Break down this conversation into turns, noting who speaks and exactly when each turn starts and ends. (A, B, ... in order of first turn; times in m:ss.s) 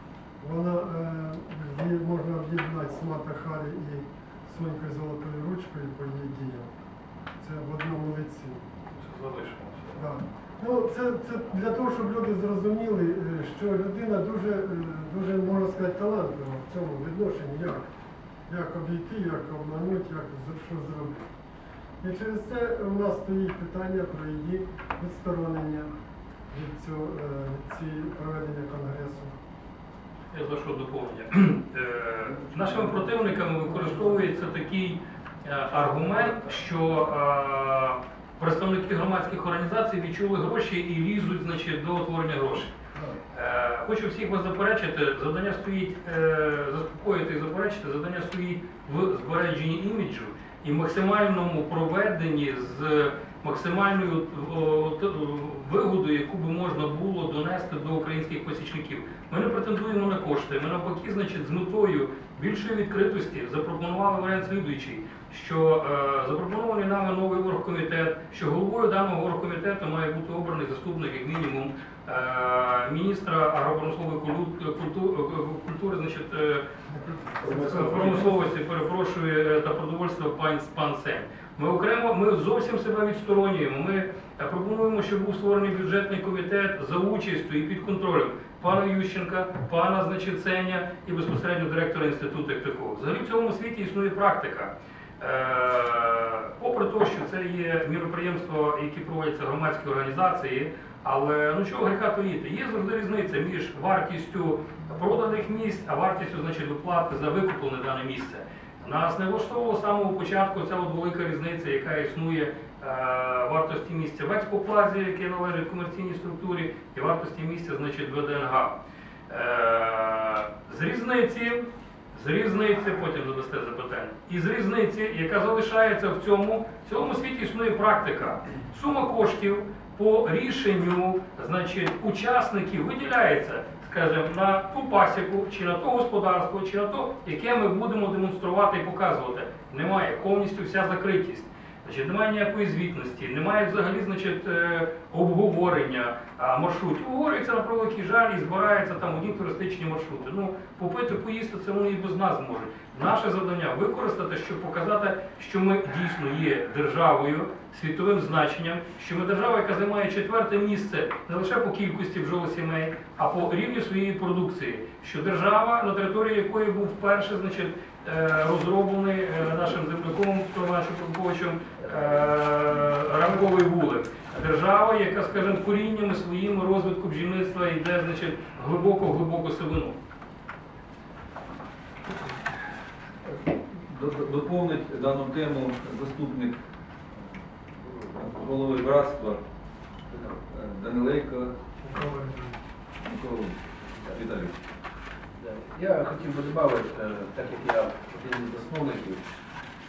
0:00.4-0:06.7 A
0:07.4-0:08.6 A
0:09.0-0:10.0 B
0:09.9-0:17.9 A
0:18.5-0:21.3 A
0:22.0-0:25.9 A
0:26.5-0:29.4 A
0:30.3-0:42.7 B
0:42.9-0:43.2 A
0:43.3-1:16.6 B
1:16.9-1:18.3 A
1:17.4-1:58.8 B
1:59.3-3:00.0 B
3:03.6-3:06.6 C
3:07.8-3:09.4 C
3:10.1-3:10.4 D
3:10.5-3:11.6 C
3:11.8-3:12.6 A
3:13.0-3:14.6 C
3:13.9-3:14.2 D
3:15.4-3:19.2 D